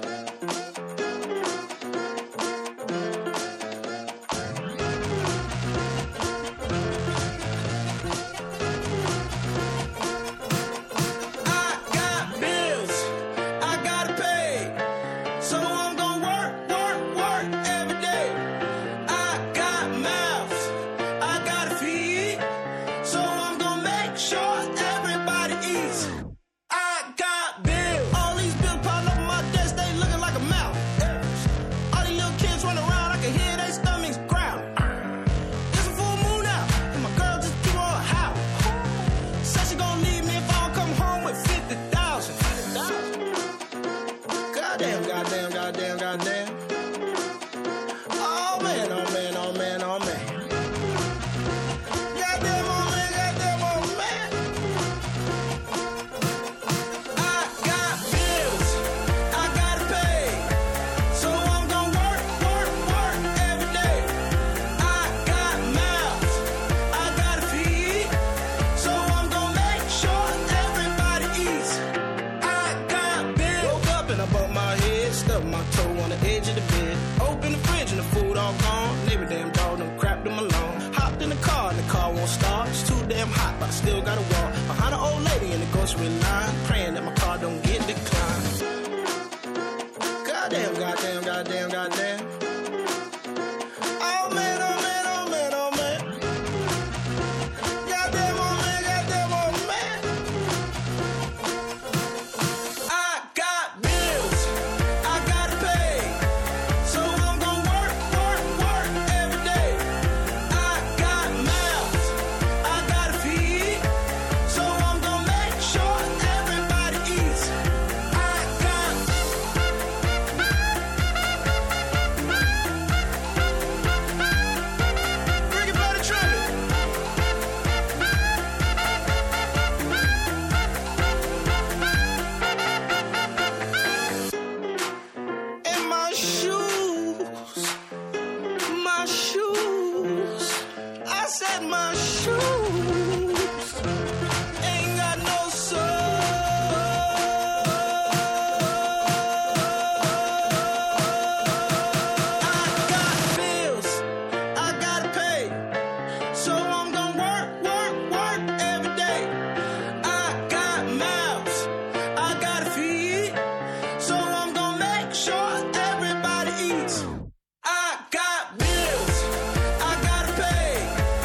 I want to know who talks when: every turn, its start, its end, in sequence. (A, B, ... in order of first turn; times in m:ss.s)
0:11.4-0:14.8 A
0:15.4-0:18.5 A
0:19.0-0:22.4 A
0:23.0-0:26.2 A
0:26.7-0:34.7 A
0:35.7-0:43.1 A
0:44.5-0:46.6 A
0:48.2-0:50.4 A
0:52.1-0:54.4 A
0:57.1-1:00.6 A
1:01.1-1:04.2 A
1:04.8-1:08.2 A
1:08.7-1:11.8 A
1:12.4-1:28.6 A
1:30.2-1:32.3 A
1:34.0-1:36.2 A
1:37.8-1:40.1 A
1:42.9-1:46.2 A
1:46.8-1:49.9 A
1:50.5-1:53.9 A
1:54.4-1:57.5 A
1:58.1-1:59.3 A
2:05.5-2:06.5 A
2:15.6-2:17.8 A
2:18.7-2:23.8 A
2:24.6-2:30.4 A
2:32.4-2:35.6 A
2:36.3-2:39.4 A
2:40.0-2:43.4 A
2:44.0-2:51.0 A